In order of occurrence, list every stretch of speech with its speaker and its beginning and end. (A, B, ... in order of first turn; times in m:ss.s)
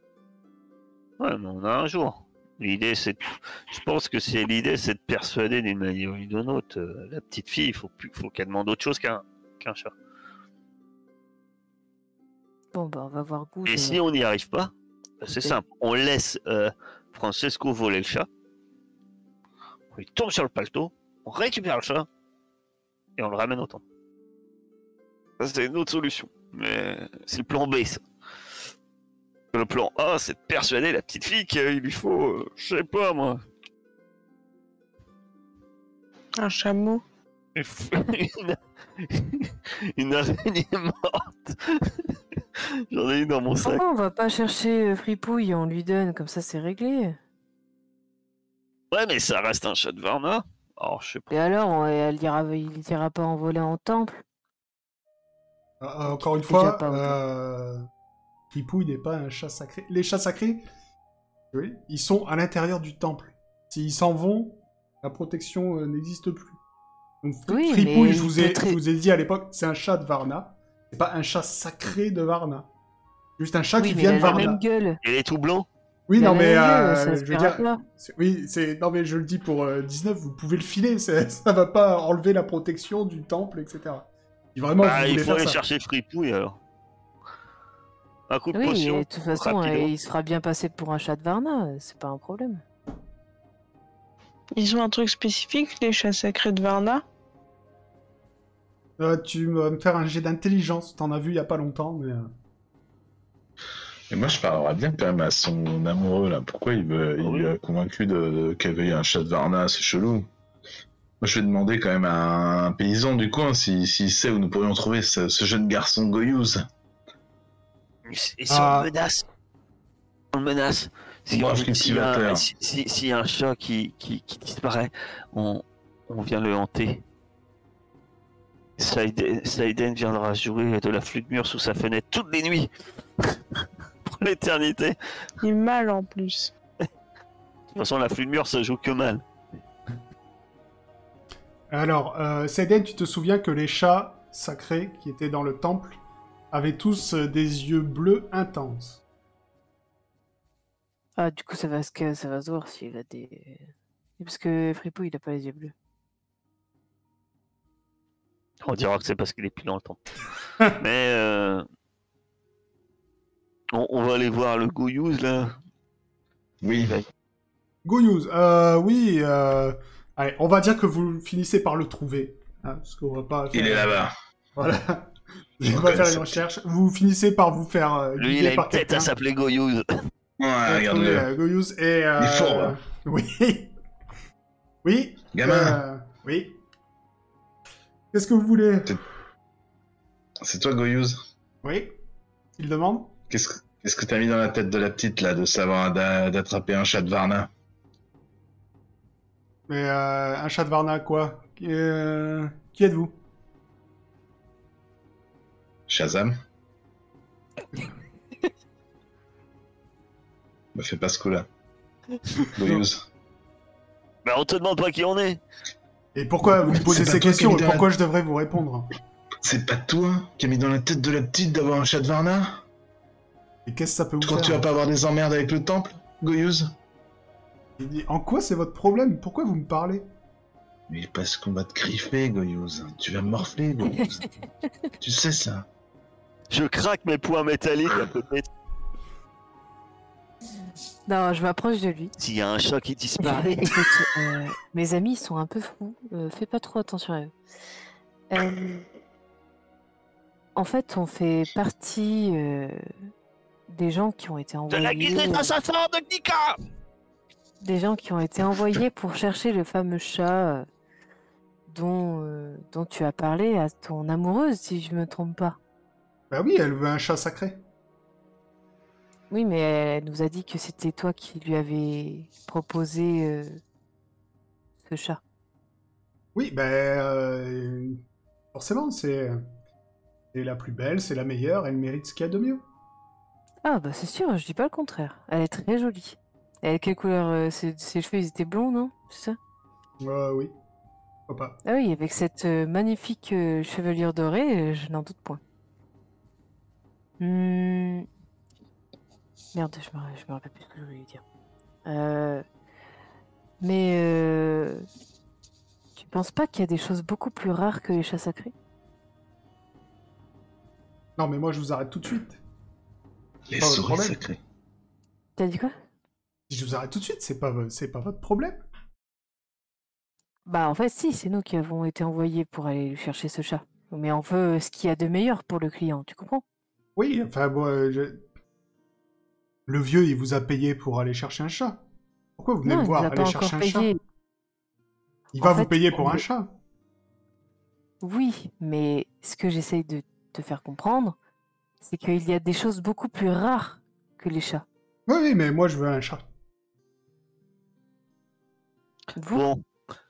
0:01.2-0:09.9 A
0:12.7-0:14.0 B
0:13.7-0:18.3 A
0:19.9-0:22.1 A
0:23.2-0:23.8 A
0:25.4-0:28.0 A
0:29.5-0:33.4 A
0:36.4-0:37.0 C
0:37.6-0:42.0 A
0:42.9-0:43.8 A
0:43.6-0:47.2 B
0:48.9-0:51.3 A
0:51.3-0:54.2 B
0:55.8-0:57.9 D
0:56.2-0:57.2 B
0:58.5-1:00.7 D
1:01.5-1:06.6 D
1:07.2-1:12.7 D
1:07.5-1:08.8 B
1:13.4-1:14.6 D
1:13.8-1:15.0 B
1:14.2-1:15.7 A
1:16.1-1:25.6 D
1:16.2-1:17.8 B
1:24.8-1:26.6 A
1:28.3-1:29.9 A
1:28.5-1:32.6 B
1:34.6-1:37.0 C
1:39.0-1:42.3 D
1:44.1-1:50.3 E
1:47.2-1:47.5 A
1:51.2-1:56.7 E
1:58.1-1:59.3 A
1:58.5-1:58.9 D
2:00.3-2:07.0 A
2:01.3-2:02.5 E
2:08.8-2:12.7 A
2:14.0-2:15.0 A
2:15.4-2:16.5 C
2:17.7-2:19.2 A
2:21.7-2:26.0 D
2:26.5-2:29.0 D
2:31.2-2:33.6 B
2:34.2-2:35.7 B
2:38.6-2:40.1 A
2:40.7-2:41.7 A
2:43.7-2:45.6 A
2:46.6-2:47.0 E
2:47.8-2:54.0 D
2:53.5-2:54.2 E
2:54.6-2:59.1 D
2:55.6-2:56.4 E
2:58.2-2:59.9 A
3:00.4-3:01.3 E
3:00.7-3:03.7 D
3:02.2-3:02.8 E
3:04.8-3:06.6 D
3:05.3-3:05.8 E
3:08.1-3:09.0 D
3:10.4-3:11.2 E
3:11.6-3:11.9 D
3:12.6-3:13.2 D
3:13.3-3:17.5 E
3:19.7-3:23.2 D
3:25.9-3:26.4 E
3:30.8-3:31.5 E
3:32.4-3:33.0 E
3:34.2-3:35.4 A
3:36.2-3:38.9 D
3:36.8-3:37.9 E
3:39.4-3:42.6 E
3:43.7-3:44.6 D
3:44.2-3:46.7 E
3:47.8-3:50.1 D
3:50.9-3:54.2 E
3:54.0-3:54.2 B
3:55.0-3:55.7 E
3:56.5-3:58.5 A
4:01.1-4:02.1 B
4:02.2-4:03.8 A
4:03.2-4:07.3 B
4:08.3-4:08.8 B
4:10.6-4:12.9 B
4:13.7-4:15.5 B
4:14.7-4:16.6 A
4:17.6-4:20.7 B
4:21.7-4:25.6 B
4:26.3-4:27.6 D
4:29.3-4:33.6 B
4:34.8-4:35.2 B
4:36.4-4:38.0 D
4:38.5-4:39.4 D
4:40.3-4:42.6 D
4:43.6-4:49.4 B
4:50.0-4:50.5 D
4:51.3-4:51.6 D
4:51.6-4:55.4 B
4:57.2-4:58.1 B
4:59.5-5:01.2 B
5:01.8-5:02.4 B
5:03.6-5:04.9 B
5:06.0-5:08.5 B
5:11.2-5:12.4 D
5:13.5-5:14.4 E
5:13.6-5:14.2 D
5:15.4-5:15.7 B
5:16.5-5:18.6 D
5:20.5-5:26.4 B
5:27.0-5:28.2 D
5:29.7-5:31.8 D
5:32.4-5:33.9 D
5:32.6-5:34.0 B
5:35.3-5:36.5 D
5:35.4-5:36.2 B
5:38.0-5:41.2 B
5:41.8-5:44.6 B
5:45.1-5:46.2 D
5:49.2-5:49.4 B
5:49.3-5:49.6 A